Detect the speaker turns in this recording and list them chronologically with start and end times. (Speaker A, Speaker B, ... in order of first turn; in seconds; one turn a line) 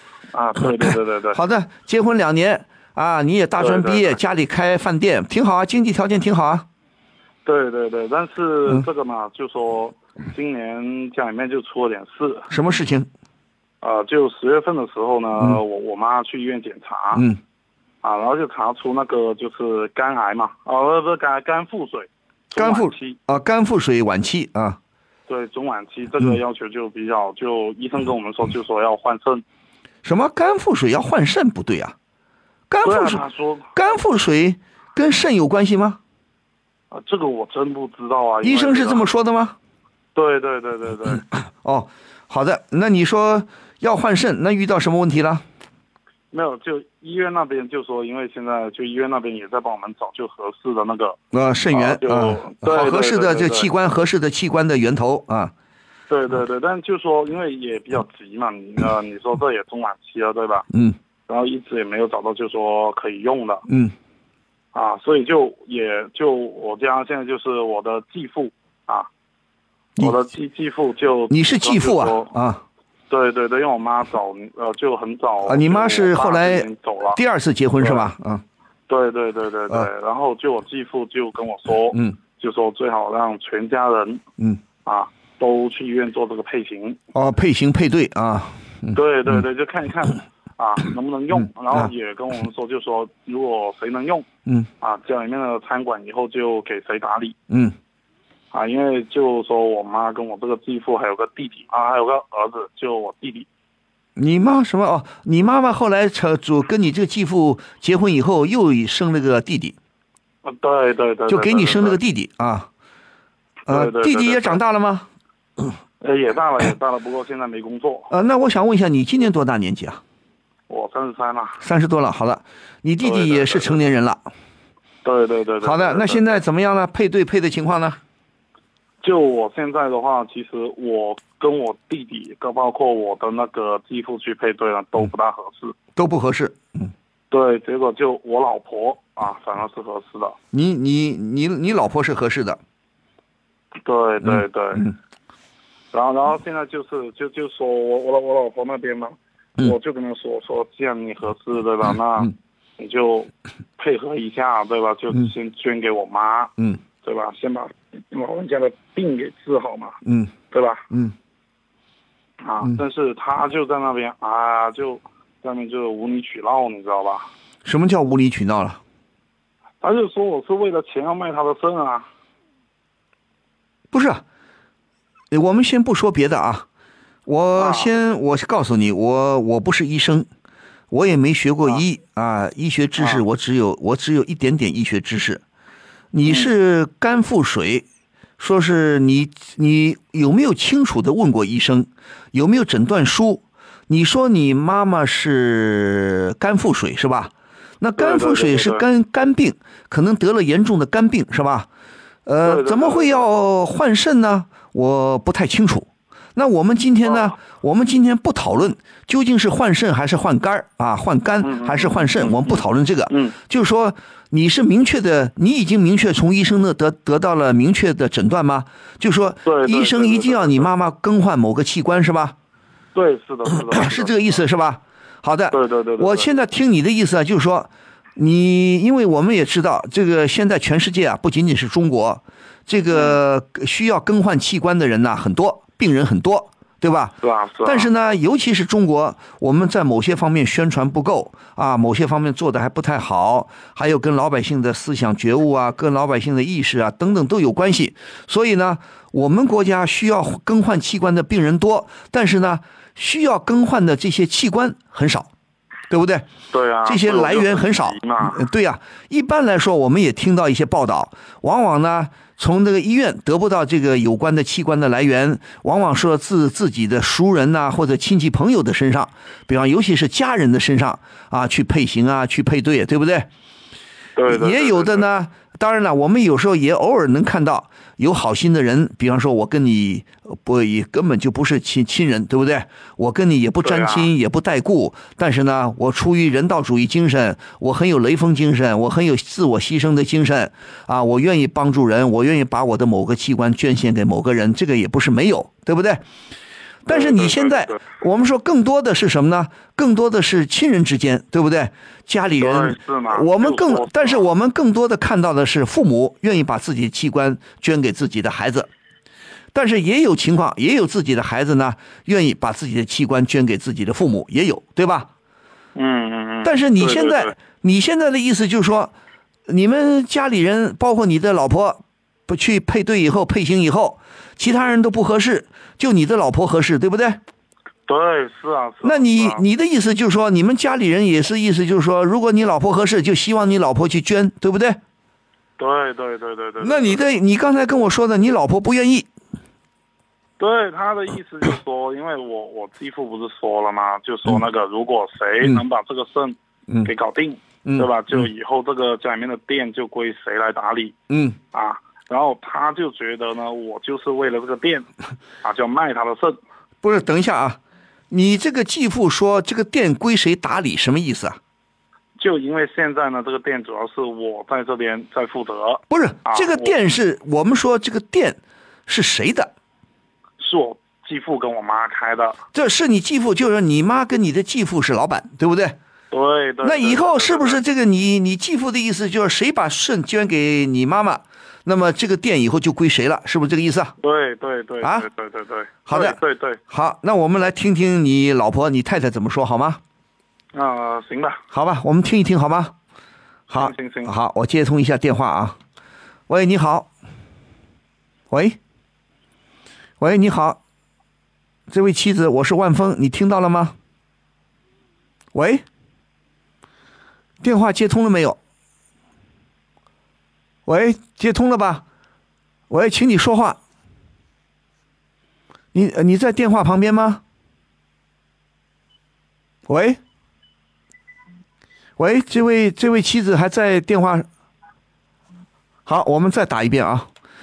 Speaker A: 0.3-1.4
Speaker B: 1.3-6.7
Speaker A: 3.6-4.2
Speaker A: 7.4-12.5
Speaker B: 12.5-13.1
Speaker A: 13.8-17.2
Speaker B: 17.1-17.4
Speaker A: 18.0-23.2
Speaker B: 22.6-24.8
Speaker A: 25.3-29.4
Speaker B: 30.0-31.9
Speaker B: 32.7-33.2
Speaker A: 32.8-33.7
Speaker B: 33.8-36.0
Speaker A: 36.9-39.0
Speaker B: 38.4-39.5
Speaker A: 40.1-41.2
Speaker B: 41.3-45.4
Speaker A: 46.3-51.2
Speaker B: 51.3-55.5
Speaker A: 51.7-53.7
Speaker A: 56.1-60.7
Speaker B: 60.7-61.0
Speaker A: 61.3-63.6
Speaker B: 63.7-63.9
Speaker A: 64.7-69.1
Speaker A: 70.0-72.3
Speaker B: 71.3-72.6
Speaker A: 73.1-77.2
Speaker B: 75.4-78.4
Speaker A: 77.8-78.1
Speaker A: 78.9-84.2
Speaker A: 84.8-87.0
Speaker B: 87.1-89.4
Speaker A: 88.9-94.3
Speaker A: 94.8-97.3
Speaker B: 97.5-97.8
Speaker A: 98.5-103.5
Speaker B: 104.2-109.8
Speaker A: 110.4-112.0
Speaker B: 111.3-112.7
Speaker A: 113.7-114.6
Speaker B: 113.7-115.1
Speaker A: 116.0-118.1
Speaker B: 118.1-120.0
Speaker A: 120.7-121.6
Speaker B: 121.6-124.3
Speaker A: 123.0-123.8
Speaker A: 125.0-126.4
Speaker B: 125.6-128.0
Speaker A: 129.0-135.7
Speaker B: 135.9-136.9
Speaker A: 137.3-140.3
Speaker B: 140.5-142.6
Speaker A: 143.8-144.9
Speaker B: 144.2-144.9
Speaker A: 145.9-160.0
Speaker B: 160.1-160.3
Speaker A: 160.5-160.8
Speaker A: 162.4-167.3
Speaker B: 167.6-168.8
Speaker A: 169.8-172.1
Speaker B: 173.9-174.2
Speaker B: 175.3-176.7
Speaker B: 177.2-180.3
Speaker A: 177.6-177.9
Speaker B: 180.9-185.4
Speaker A: 183.0-183.2
Speaker B: 186.1-187.8
Speaker A: 186.2-186.5
Speaker B: 188.4-201.7
Speaker A: 198.0-198.8
Speaker B: 202.2-222.3
Speaker A: 202.4-203.2
Speaker A: 207.0-207.3
Speaker A: 211.4-213.4
Speaker A: 219.4-220.7
Speaker A: 222.9-224.4
Speaker B: 223.7-255.3
Speaker A: 225.5-226.3
Speaker A: 232.9-233.2
Speaker A: 237.2-237.9
Speaker B: 255.9-256.3
Speaker A: 256.5-258.4
Speaker B: 256.8-273.3
Speaker A: 274.1-275.1
Speaker B: 274.3-296.0
Speaker A: 283.6-284.1
Speaker B: 296.8-308.7
Speaker A: 296.9-297.8
Speaker A: 302.4-304.3
Speaker B: 309.5-315.1
Speaker A: 315.7-317.3
Speaker B: 316.4-318.9
Speaker B: 319.5-327.2
Speaker A: 327.9-329.4
Speaker B: 328.8-334.8
Speaker A: 335.6-337.0
Speaker B: 336.6-339.1
Speaker A: 340.4-350.9
Speaker B: 347.6-348.2
Speaker B: 351.1-351.4
Speaker A: 351.5-354.9
Speaker A: 355.4-356.4
Speaker B: 356.8-357.6
Speaker B: 358.1-361.4
Speaker A: 362.2-366.7
Speaker B: 365.9-369.5
Speaker A: 370.4-372.4
Speaker B: 372.5-375.8
Speaker A: 376.1-377.6
Speaker B: 376.6-383.9
Speaker A: 384.0-386.6
Speaker B: 385.9-389.8
Speaker A: 390.5-391.4
Speaker B: 391.5-392.7
Speaker B: 393.5-395.6
Speaker A: 393.5-394.1
Speaker B: 396.3-396.9
Speaker B: 398.3-398.6
Speaker B: 400.0-400.6
Speaker B: 401.7-403.7
Speaker B: 405.3-405.6
Speaker B: 407.4-408.4
Speaker B: 410.6-411.8
Speaker B: 412.7-413.6
Speaker B: 415.7-417.2
Speaker B: 419.7-420.0
Speaker B: 422.0-424.3
Speaker B: 425.9-427.1